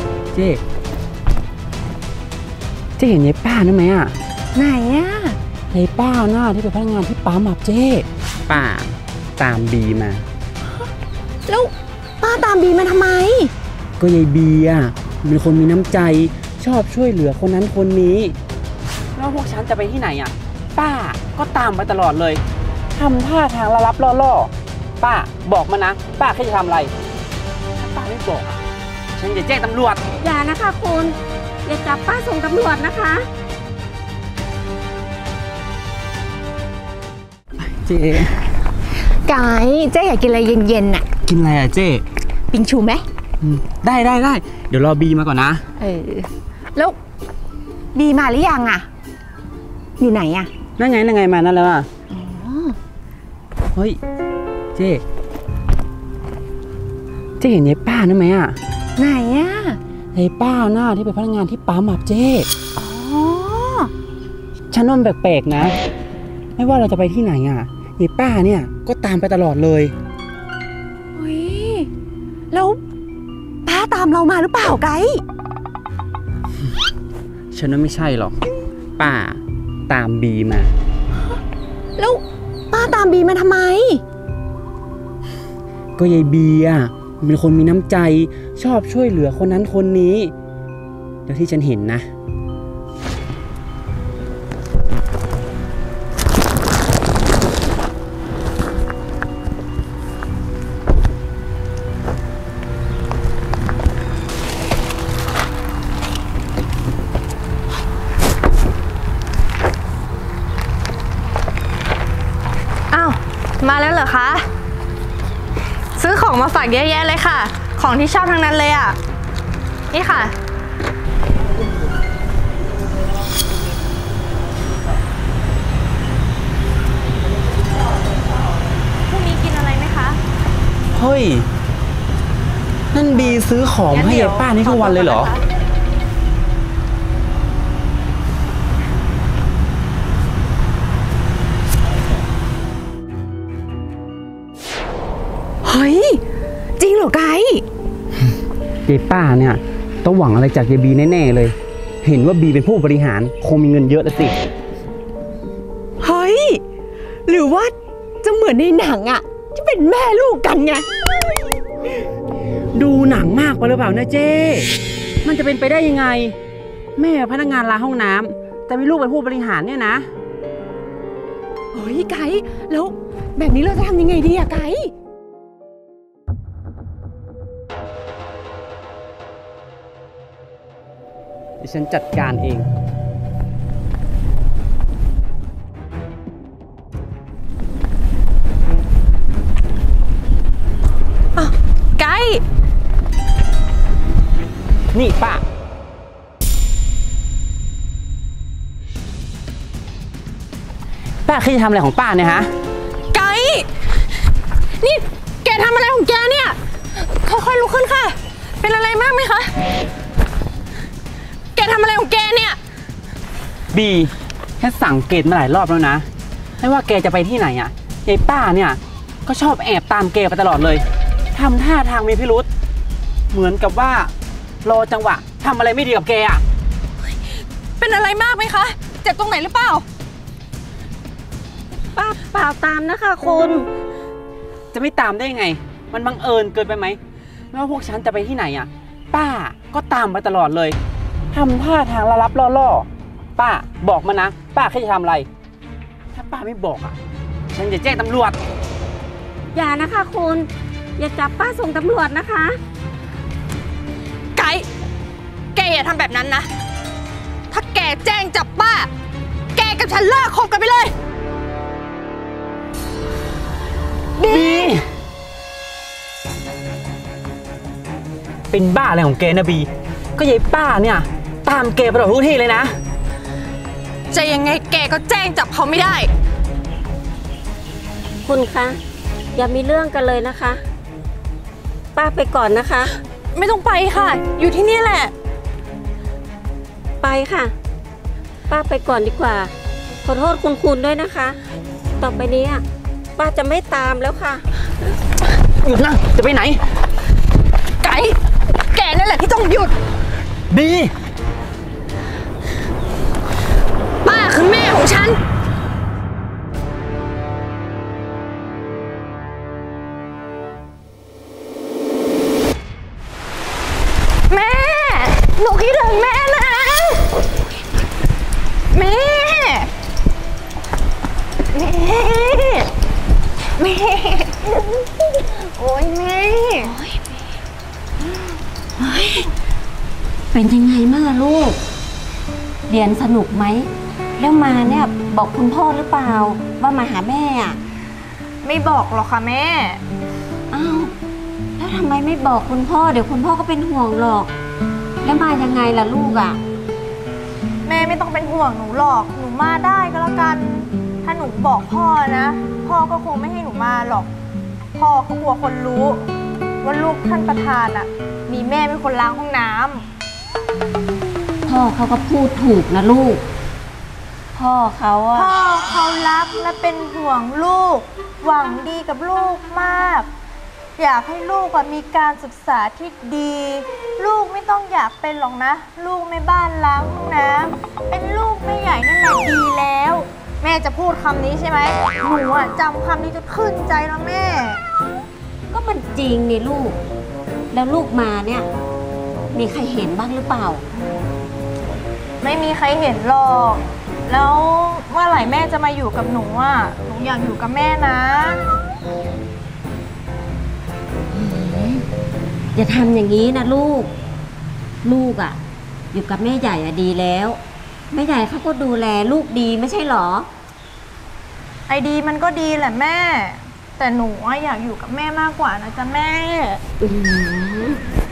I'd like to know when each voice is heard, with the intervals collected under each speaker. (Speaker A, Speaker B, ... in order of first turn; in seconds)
Speaker A: 0.3-0.6, 3.0-4.1, 5.7-10.2, 14.0-18.3, 19.1-22.4, 22.9-26.9, 27.8-28.6, 29.2-30.0, 37.6-38.4, 41.2-42.0, 43.4-45.6, 50.8-51.9, 53.7-54.0, 54.7-55.0, 57.4-58.6, 60.1-62.5, 64.7-65.7, 66.6-69.9, 77.5-78.3, 79.0-80.7, 86.0-90.3, 91.3-92.1, 130.9-131.5, 132.9-135.3, 148.8-154.3, 162.7-164.7, 165.2-166.4, 167.0-170.1, 181.6-182.7, 194.9-195.4, 201.2-202.5, 213.7-216.1, 216.6-222.5, 223.3-224.1, 224.6-226.4, 234.7-237.0, 237.5-240.8, 241.3-245.3, 246.1-247.0, 247.5-248.3, 264.2-264.8, 268.5-272.7, 295.6-296.6, 300.5-300.9
Speaker B: 4.5-5.4, 11.4-13.5, 39.2-41.0, 42.5-43.0, 45.8-47.0, 47.9-48.9, 50.0-50.5, 52.1-52.8, 59.0-59.8, 62.8-63.9, 71.1-71.9, 72.5-72.8, 73.6-75.2, 82.0-84.0, 145.6-146.2, 146.8-147.6, 156.0-156.6, 157.2-160.9, 171.7-174.9
Speaker C: 30.2-33.3, 231.9-233.7, 249.5-252.6, 278.2-278.8, 279.3-280.6, 281.9-282.9, 287.0-287.5, 288.5-289.5, 290.0-291.4, 292.0-292.6, 293.1-294.4, 326.6-327.0, 328.8-329.3, 330.3-331.6, 332.7-337.6, 340.5-340.9, 341.6-344.3, 345.0-346.4, 361.4-363.2, 364.3-365.3, 385.5-386.8, 387.5-388.5, 389.3-390.6, 401.1-401.8, 402.5-403.9, 404.8-405.4, 405.9-407.4, 407.9-410.3, 416.8-417.8
Speaker D: 112.9-114.5, 115.9-119.0, 119.9-120.3, 129.1-130.2, 133.9-135.4, 191.3-192.4, 203.1-203.7, 204.8-209.5, 211.6-212.6, 227.8-229.8, 254.3-254.7, 255.5-256.5, 257.5-258.9, 259.5-260.9, 274.1-276.1, 283.3-285.1, 297.8-299.7, 304.0-305.2, 314.3-317.1, 318.7-319.7, 321.5-322.6, 323.6-324.4, 325.6-326.7, 338.4-339.8, 347.6-354.1, 354.8-356.1, 356.6-359.8, 365.1-370.1, 370.8-384.6, 392.2-398.4, 411.7-416.6